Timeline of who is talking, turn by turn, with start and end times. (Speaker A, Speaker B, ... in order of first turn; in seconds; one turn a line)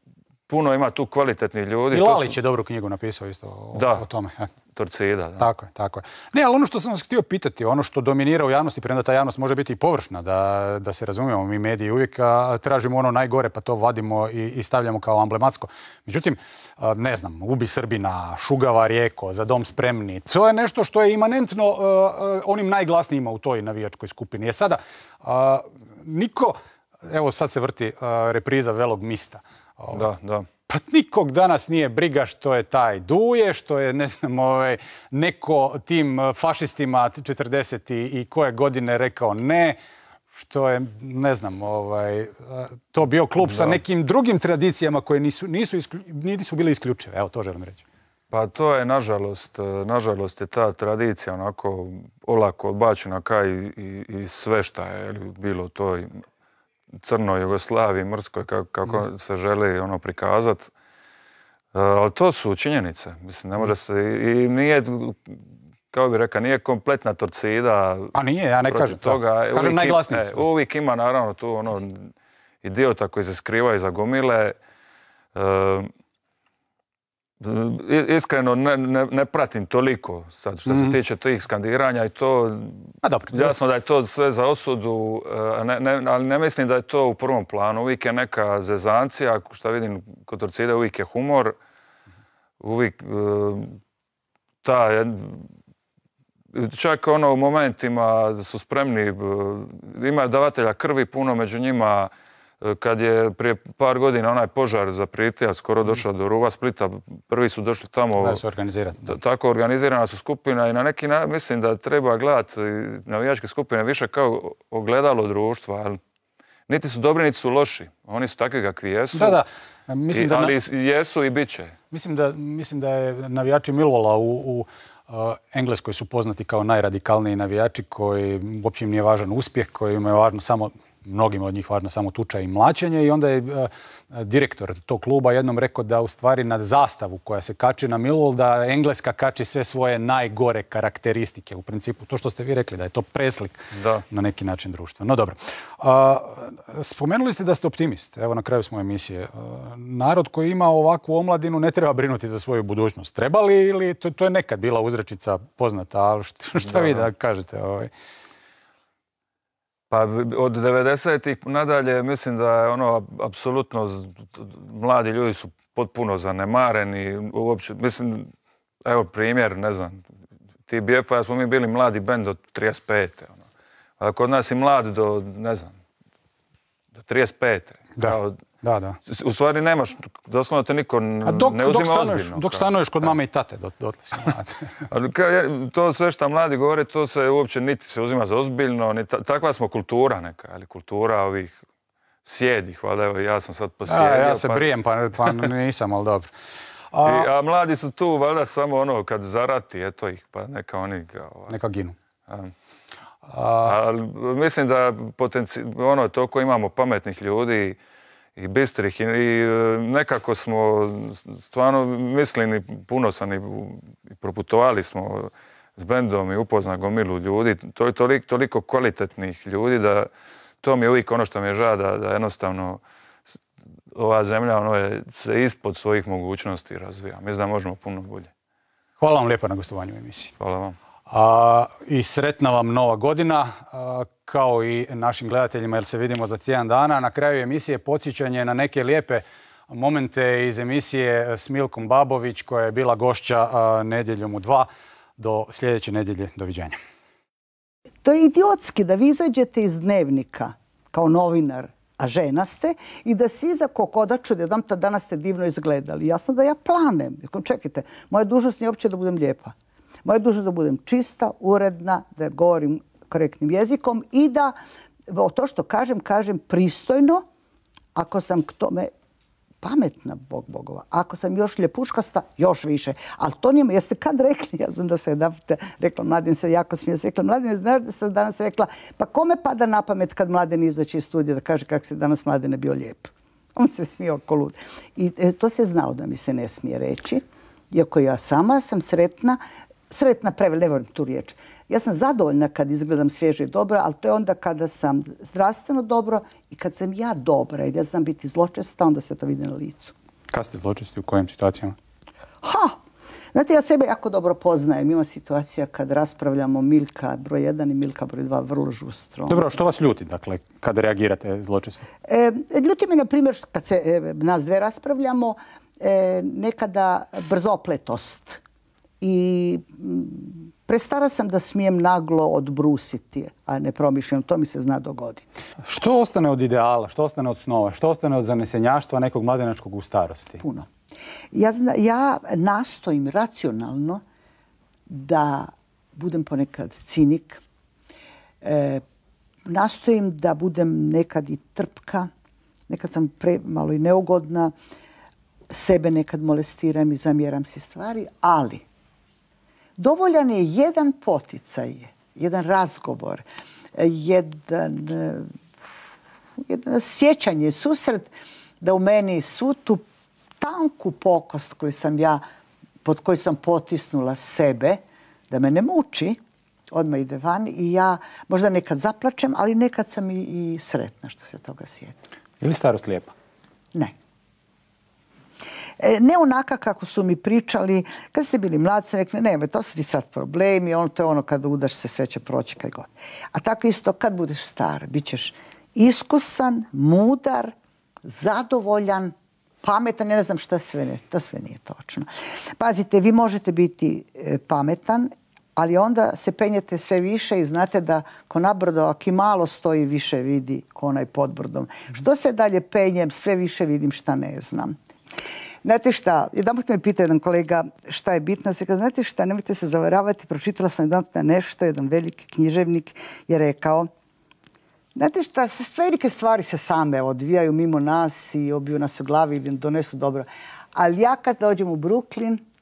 Speaker A: 0.5-2.4
Speaker B: 1.9-4.5
Speaker A: 3.7-4.0
Speaker A: 4.7-5.5
Speaker B: 5.4-30.0
Speaker A: 29.9-30.5
Speaker B: 30.7-39.8
Speaker B: 40.3-47.8
Speaker A: 43.5-43.8
Speaker A: 48.3-56.2
Speaker A: 57.0-60.7
Speaker A: 61.7-65.4
Speaker A: 65.9-68.1
Speaker B: 68.1-70.4
Speaker A: 68.7-74.5
Speaker A: 75.3-75.9
Speaker A: 77.4-91.5
Speaker B: 80.7-81.0
Speaker B: 83.0-83.5
Speaker A: 92.6-93.8
Speaker A: 94.6-95.5
Speaker A: 96.5-108.4
Speaker B: 108.2-109.2
Speaker A: 109.0-116.0
Speaker A: 116.7-119.4
Speaker B: 119.1-120.5
Speaker A: 120.1-121.8
Speaker B: 121.9-157.9
Speaker A: 143.7-144.1
Speaker A: 156.6-157.1
Speaker A: 159.9-168.3
Speaker A: 168.8-170.1
Speaker A: 170.7-173.4
Speaker A: 174.0-175.8
Speaker A: 176.9-178.4
Speaker B: 178.0-179.0
Speaker A: 179.1-183.1
Speaker B: 181.2-184.7
Speaker A: 184.9-191.6
Speaker A: 192.2-194.7
Speaker B: 193.9-196.3
Speaker B: 196.9-197.3
Speaker A: 197.0-201.6
Speaker B: 201.5-201.9
Speaker A: 202.3-202.5
Speaker B: 203.3-203.7
Speaker A: 203.6-207.8
Speaker A: 208.4-220.1
Speaker A: 220.6-223.3
Speaker A: 223.9-228.3
Speaker B: 229.0-230.3
Speaker A: 230.4-230.8
Speaker B: 231.1-246.8
Speaker C: 248.0-259.5
Speaker C: 260.1-264.6
Speaker C: 265.1-267.2
Speaker C: 267.9-268.9
Speaker C: 269.6-299.9
Speaker B: 300.3-301.8
Speaker C: 302.4-302.8
Speaker C: 303.3-309.4
Speaker B: 309.3-311.8
Speaker C: 312.1-318.4
Speaker C: 319.0-325.3
Speaker B: 325.6-330.4
Speaker C: 330.4-330.7
Speaker C: 331.3-334.0
Speaker C: 334.9-337.4
Speaker C: 338.4-338.8
Speaker C: 339.5-342.1
Speaker C: 342.7-344.6
Speaker C: 345.5-348.6
Speaker C: 349.8-355.3
Speaker C: 356.4-359.8
Speaker C: 360.4-362.2
Speaker C: 362.8-366.2
Speaker C: 366.7-372.0
Speaker B: 372.4-373.1
Speaker C: 375.8-387.5
Speaker C: 388.1-404.8
Speaker C: 405.6-413.9
Speaker C: 414.9-422.4